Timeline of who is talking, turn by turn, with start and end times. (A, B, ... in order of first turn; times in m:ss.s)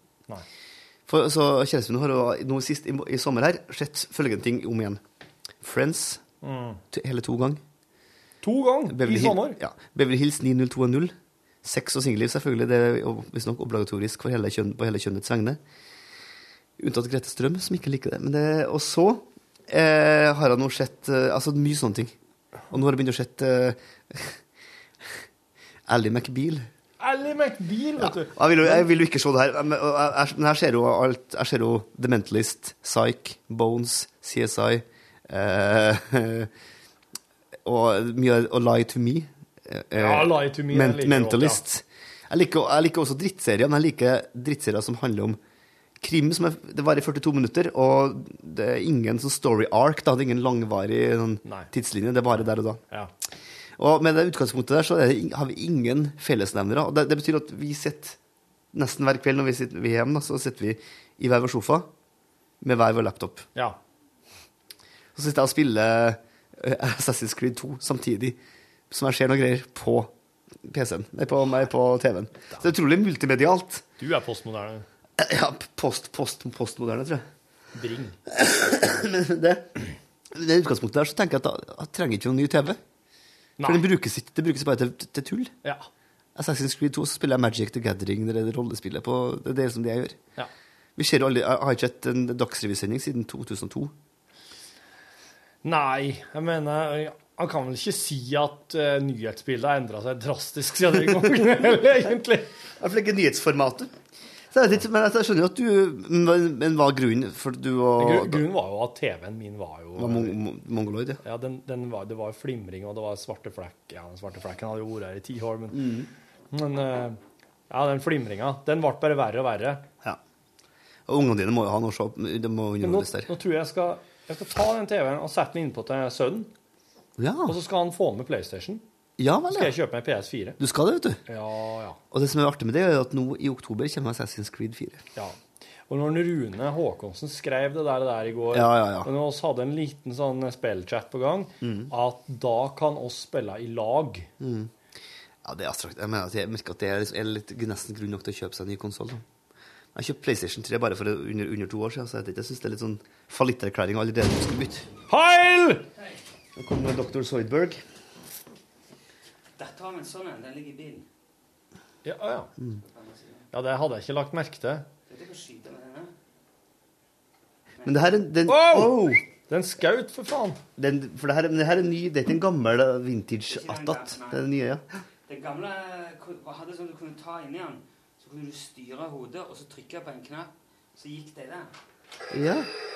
0:01.1-0:05.0 A
0:05.6-0:06.2 A
0:06.4-0:06.8 B
0:06.9-0:07.6 A
0:08.4-0:09.6 B
0:08.9-0:15.6 A
0:16.8-0:22.1 A
0:22.7-0:24.4 A
0:25.9-0:26.7 A
0:27.0-0:28.9 B
0:28.0-0:36.5 A
0:37.6-0:45.4 A
0:39.9-0:41.6 B
0:46.0-0:52.8 A
0:51.4-0:51.7 B
0:53.8-0:58.2 A
0:58.7-1:01.9 A
1:02.6-1:03.5 A
1:05.1-1:08.4 A
1:08.9-1:10.1 A
1:10.6-1:13.9 A
1:14.0-1:14.8 B
1:15.2-1:17.2 A
1:17.7-1:18.2 B
1:18.3-1:19.7 A
1:20.3-1:22.8 A
1:23.6-1:23.9 B
1:23.6-1:25.5 A
1:26.3-1:30.2 A
1:31.0-1:33.9 A
1:35.6-1:42.5 B
1:42.8-1:43.9 A
1:44.5-1:48.5 A
1:48.0-1:50.4 B
1:50.0-1:51.2 A
1:51.2-1:55.9 B
1:55.7-1:56.1 A
1:56.5-1:57.2 B
1:57.7-1:59.8 B
2:01.1-2:03.3 A
2:02.8-2:06.5 B
2:07.2-2:07.6 A
2:07.4-2:08.8 B
2:09.2-2:09.7 A
2:09.5-2:10.6 B
2:10.6-2:11.2 A
2:11.2-2:12.0 B
2:12.1-2:15.0 A
2:15.1-2:24.3 B
2:18.5-2:19.1 A
2:21.6-2:21.9 A
2:24.4-2:24.7 A
2:25.4-2:29.2 A
2:29.9-2:34.9 A
2:35.1-2:35.9 B
2:36.6-2:37.8 A
2:39.6-2:41.1 C
2:42.0-2:42.5 B
2:42.8-2:43.4 C
2:43.5-2:44.9 B
2:45.1-2:46.1 C
2:47.8-2:48.2 C
2:47.8-2:49.2 A
2:48.4-2:50.6 B
2:50.8-2:54.8 A
2:53.5-2:54.4 C
2:55.3-3:01.7 C
3:02.3-3:02.7 A